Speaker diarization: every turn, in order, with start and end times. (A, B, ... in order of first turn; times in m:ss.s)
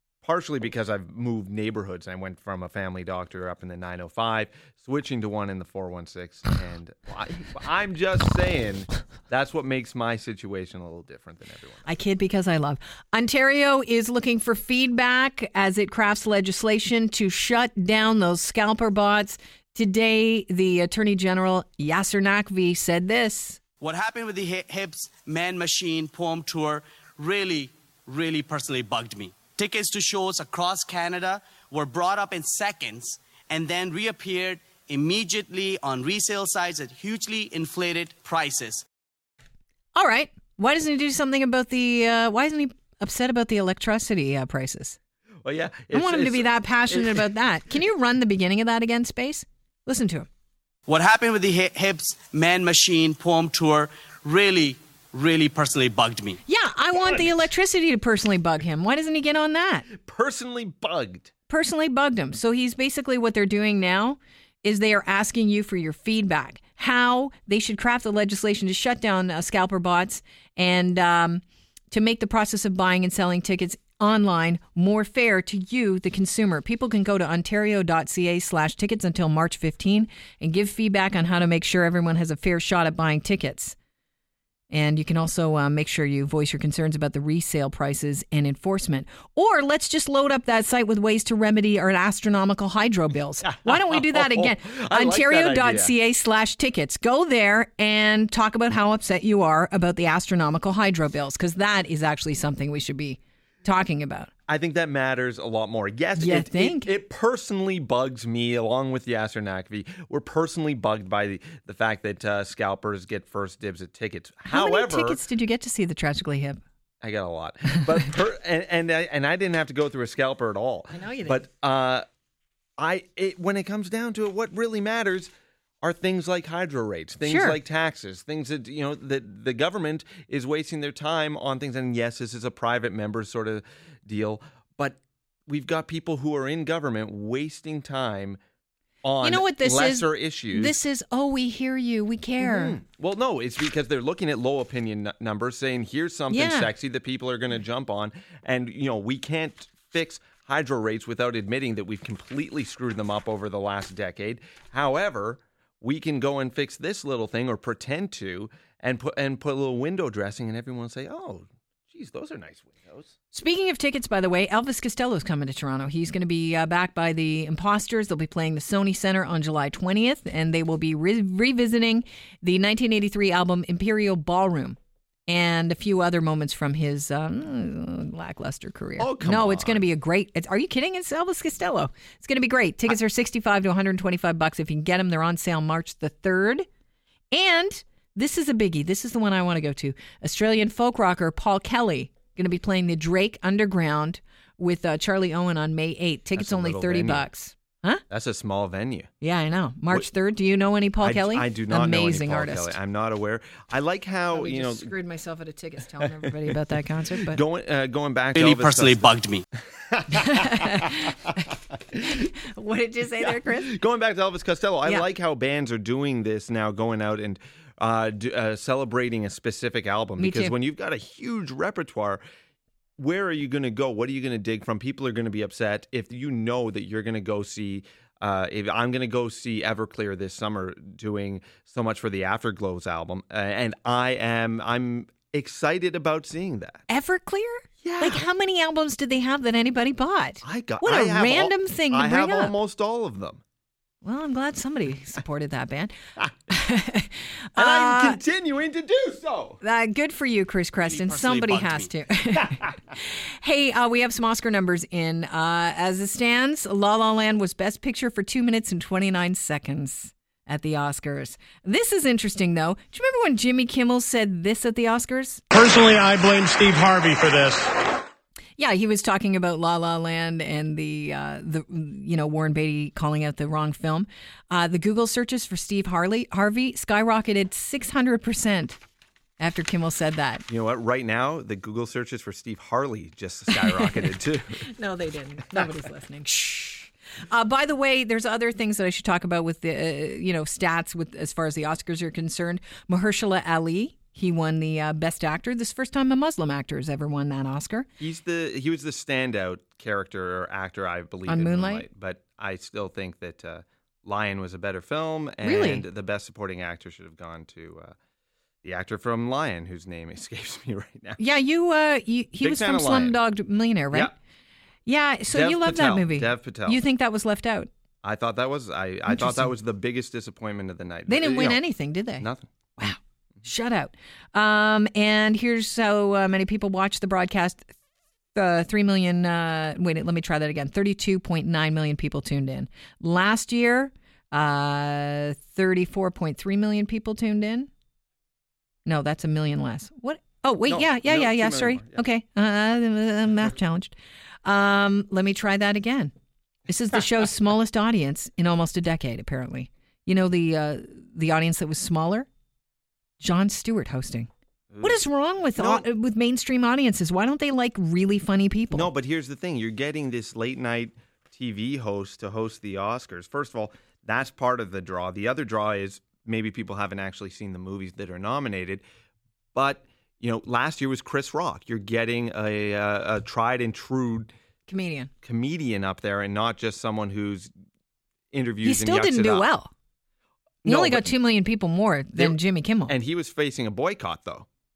0:00.2-0:11.9 A
0:11.8-0:23.6 B
0:23.8-0:38.8 C
0:40.0-0:45.0 B
0:45.4-0:47.2 A
0:45.9-0:50.3 B
0:50.9-0:56.4 C
0:56.5-0:59.9 B
0:59.9-1:01.3 A
1:01.5-1:23.8 B
1:24.7-1:44.3 B
1:33.4-1:36.0 A
1:44.5-1:55.2 A
1:46.2-1:46.9 B
1:54.5-1:56.6 B
1:57.0-2:02.0 A
2:00.9-2:01.4 B
2:02.8-2:05.3 A
2:05.8-2:18.4 A
2:07.2-2:07.6 B
2:19.0-2:20.8 A
2:19.2-2:22.8 B
2:22.4-2:43.1 A
2:26.3-2:26.7 B
2:43.3-3:06.6 B
2:59.0-2:59.8 A
3:07.3-3:18.0 B
3:16.4-3:17.2 A
3:18.1-3:19.1 A
3:19.2-3:22.8 B
3:21.0-3:24.9 A
3:24.3-3:27.4 B
3:27.2-3:29.1 A
3:28.4-3:29.4 C
3:29.9-3:31.1 A
3:30.1-3:31.2 B
3:32.0-3:33.8 B
3:33.2-3:42.2 A
3:40.2-3:40.6 B
3:43.0-3:56.8 A
3:56.9-4:02.6 B
3:57.8-3:58.2 A
4:00.4-4:03.4 A
4:04.0-4:05.9 B
4:06.5-4:08.2 B
4:07.6-4:09.6 A
4:09.6-4:25.4 B
4:10.9-4:11.9 C
4:25.5-4:27.7 D
4:28.6-4:38.8 B
4:39.4-4:40.5 B
4:40.5-4:44.7 A
4:43.5-4:44.1 B
4:44.6-4:57.9 B
4:58.0-5:08.0 A
5:01.3-5:01.9 B
5:05.4-5:05.8 B
5:08.6-5:11.2 A
5:11.2-5:14.1 B
5:12.4-5:13.2 A
5:14.9-5:17.7 B
5:15.3-5:16.8 A
5:18.0-5:21.6 A
5:19.1-5:19.5 B
5:21.1-5:22.3 B
5:22.2-5:22.5 A
5:22.8-5:27.7 B
5:28.3-5:37.7 B
5:38.9-5:43.9 B
5:40.7-5:42.1 A
5:44.4-5:46.1 B
5:46.7-5:52.3 B
5:53.2-5:54.3 B
5:54.7-5:55.0 A
5:54.8-5:58.9 B
5:55.6-5:55.9 A
5:58.7-6:08.8 A
6:09.6-6:14.3 A
6:14.7-6:15.1 B
6:15.2-6:17.5 A
6:18.3-6:19.5 A
6:18.6-6:19.7 B
6:20.6-6:21.1 A
6:20.6-6:23.0 B
6:22.2-6:24.5 A